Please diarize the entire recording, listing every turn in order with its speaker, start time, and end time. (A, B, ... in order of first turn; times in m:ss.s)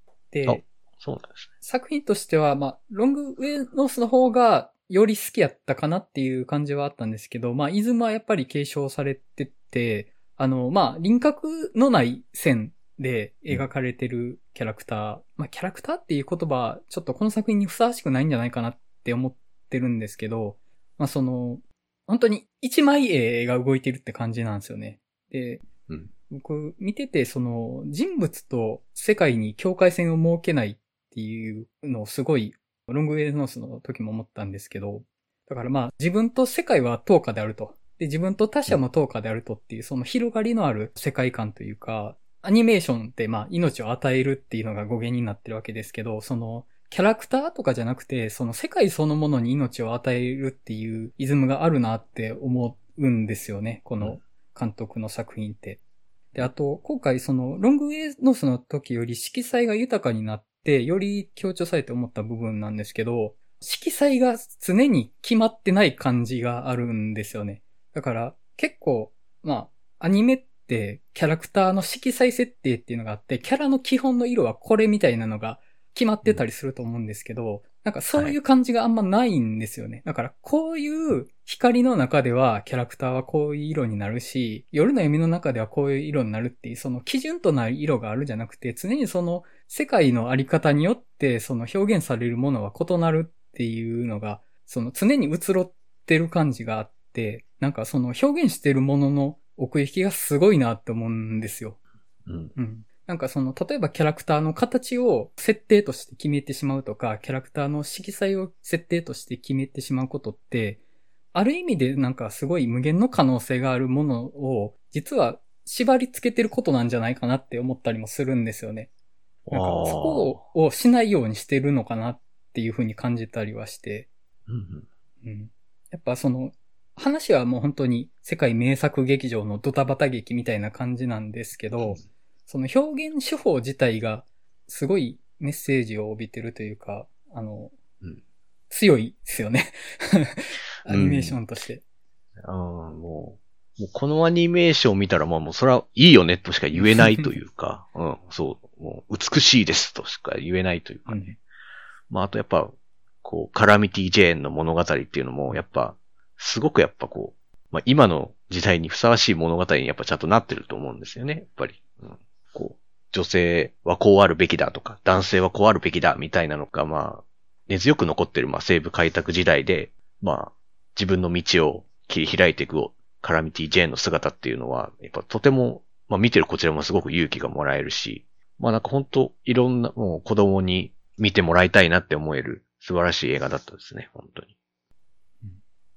0:00.3-0:00.6 A
0:00.5-0:01.5 B
0:01.6-0:25.6 A
0:26.3-0:55.8 A
0:56.3-1:41.8 A
1:42.3-1:42.6 B
1:42.6-1:50.8 A
1:51.3-1:58.9 A
1:59.5-2:00.4 B
1:59.5-2:04.1 A
2:04.5-2:04.9 B
2:05.2-2:17.7 A
2:18.7-2:21.8 A
2:20.9-2:21.4 B
2:22.4-2:31.3 B
2:26.8-2:27.3 A
2:31.1-2:31.4 A
2:32.1-2:32.7 B
2:33.2-3:04.5 B